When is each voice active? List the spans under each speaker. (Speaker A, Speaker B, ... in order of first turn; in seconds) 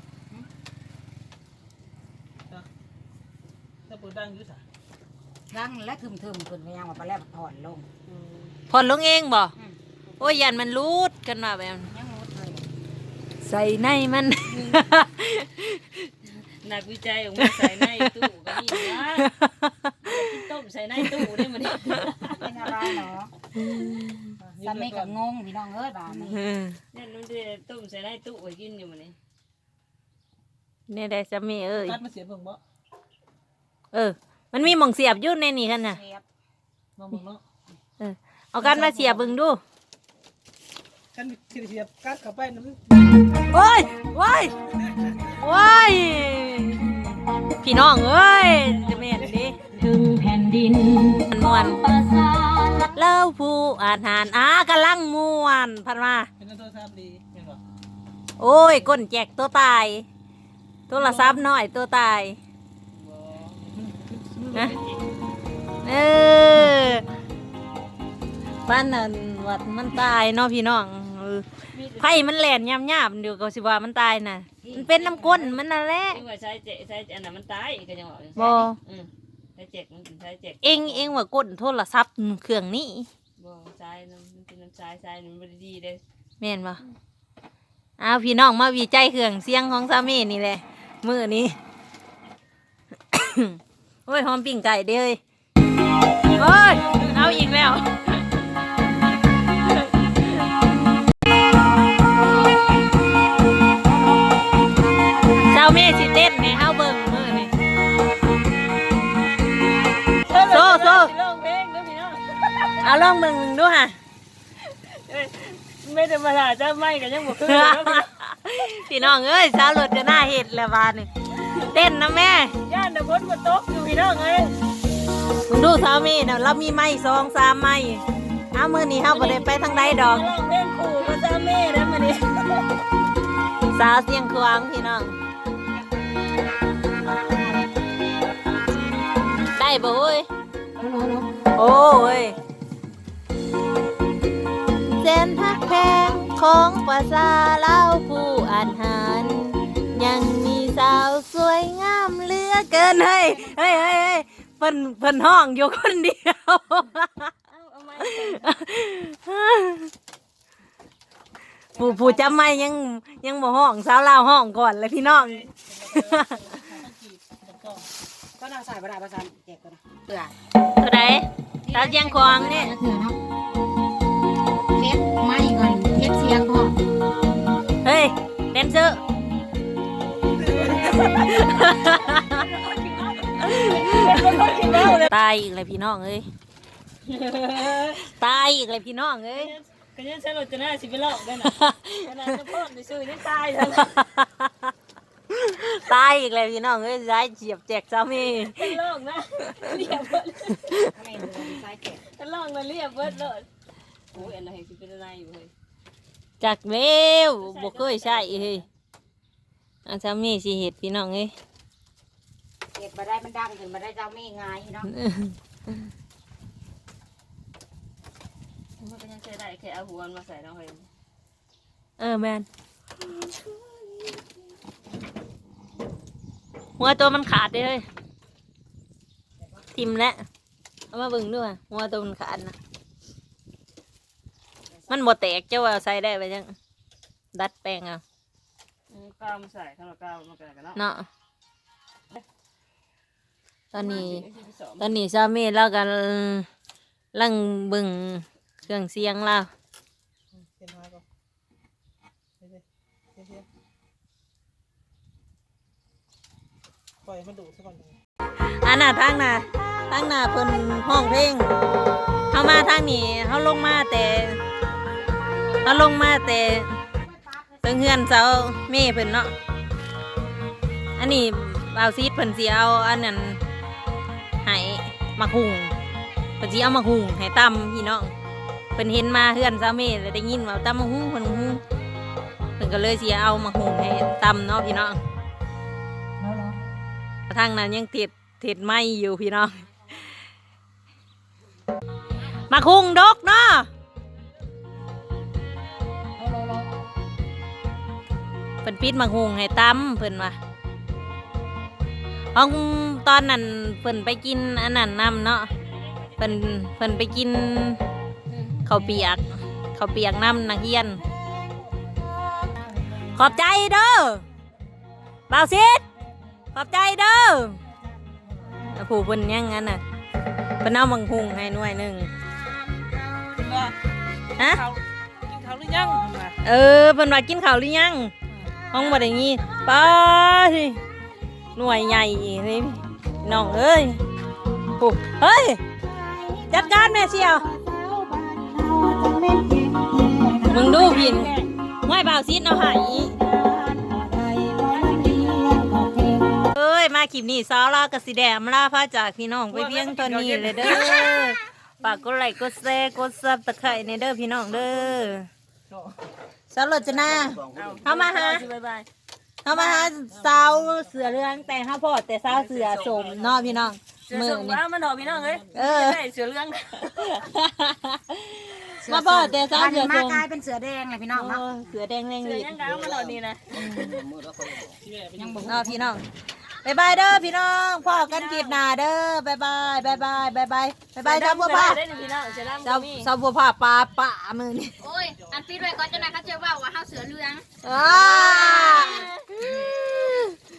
Speaker A: 3.9-4.6, 24.4-25.1, 31.9-32.6, 37.0-37.4, 41.1-42.8, 56.4-57.6, 165.2-167.8, 250.4-251.0, 253.2-253.4, 257.1-257.9, 323.4-323.7, 324.4-326.4, 349.5-351.0, 359.5-360.8, 374.9-375.4, 385.1-386.4
Speaker B: 5.5-7.9, 11.9-12.7, 22.3-23.3, 24.6-26.4, 35.9-36.2, 49.8-52.9, 74.6-75.6, 78.4-78.7, 103.7-105.7, 137.0-137.7, 140.8-141.5, 145.4-146.4, 152.7-154.2, 161.7-162.7, 168.4-170.3, 171.6-173.2, 174.7-176.8, 200.9-202.0, 212.7-214.9, 264.9-266.0, 267.0-267.8, 286.2-286.6, 296.2-296.9, 311.1-313.4, 335.8-341.4, 343.0-346.5, 368.8-371.8, 373.5-374.1, 375.1-375.9, 385.5-385.9, 386.5-387.3
Speaker C: 8.7-9.5, 10.2-11.9, 13.4-16.1, 17.4-18.1, 19.2-20.3, 23.6-24.4, 26.3-26.8, 30.9-32.0, 33.9-36.0, 38.0-39.6, 43.5-44.5, 45.2-49.6, 51.2-51.9, 52.9-56.3, 58.4-60.1, 60.9-62.4, 64.5-64.8, 65.8-67.0, 68.7-71.5, 72.0-76.2, 78.3-78.8, 80.6-83.1, 86.4-86.8, 88.0-91.6, 93.1-95.2, 96.3-98.2, 105.5-107.5, 110.4-111.1, 112.8-114.0, 117.3-121.1, 121.6-122.5, 125.5-130.3, 133.7-135.1, 139.5-140.3, 141.6-142.4, 144.8-157.3, 158.0-159.9, 161.8-166.6, 170.8-172.8, 177.8-179.0, 181.1-182.4, 183.4-186.3, 187.6-189.5, 191.4-192.1, 193.8-194.5, 195.3-198.8, 206.4-208.6, 209.8-211.3, 214.9-215.3, 222.0-222.5, 226.8-227.8, 229.7-230.2, 230.9-232.6, 234.9-236.5, 237.3-238.0, 240.8-241.1, 243.7-244.2, 244.8-246.5, 247.1-249.5, 258.4-261.5, 262.3-264.4, 265.6-266.8, 267.6-269.3, 271.0-273.4, 274.4-275.7, 276.4-278.1, 278.8-281.6, 282.6-285.0, 287.3-290.1, 292.5-293.7, 298.6-300.4, 302.3-305.5, 306.2-307.8, 308.6-311.0, 313.1-314.2, 315.3-315.8, 316.5-317.6, 318.6-319.8, 320.6-322.1, 324.4-324.6, 326.4-328.1, 328.7-330.8, 331.6-334.0, 334.8-335.6, 336.5-337.4, 340.5-341.3, 341.8-343.1, 346.6-355.3, 356.5-358.4, 359.4-364.6, 365.5-366.0, 367.1-370.2, 371.1-372.6, 375.5-376.0, 376.6-381.8, 382.6-384.9, 387.6-390.4
Speaker D: 16.6-19.3, 20.0-22.5, 26.9-29.1, 62.9-65.0, 71.7-72.3, 76.1-81.1, 83.4-86.0, 110.2-112.9, 114.7-118.1, 118.8-119.1, 121.4-121.7, 122.7-124.5, 129.0-132.8, 157.5-158.5, 180.4-185.1, 187.1-188.1, 189.3-194.0, 198.2-200.8, 202.1-203.5, 204.1-205.5, 207.4-208.7, 218.8-220.9, 238.9-240.8, 243.7-244.9, 305.5-306.5, 340.5-341.5, 357.4-358.9, 362.4-363.4, 364.1-367.2, 372.2-374.0, 377.8-378.6, 381.0-383.1, 387.9-389.0
Speaker E: 384.9-387.4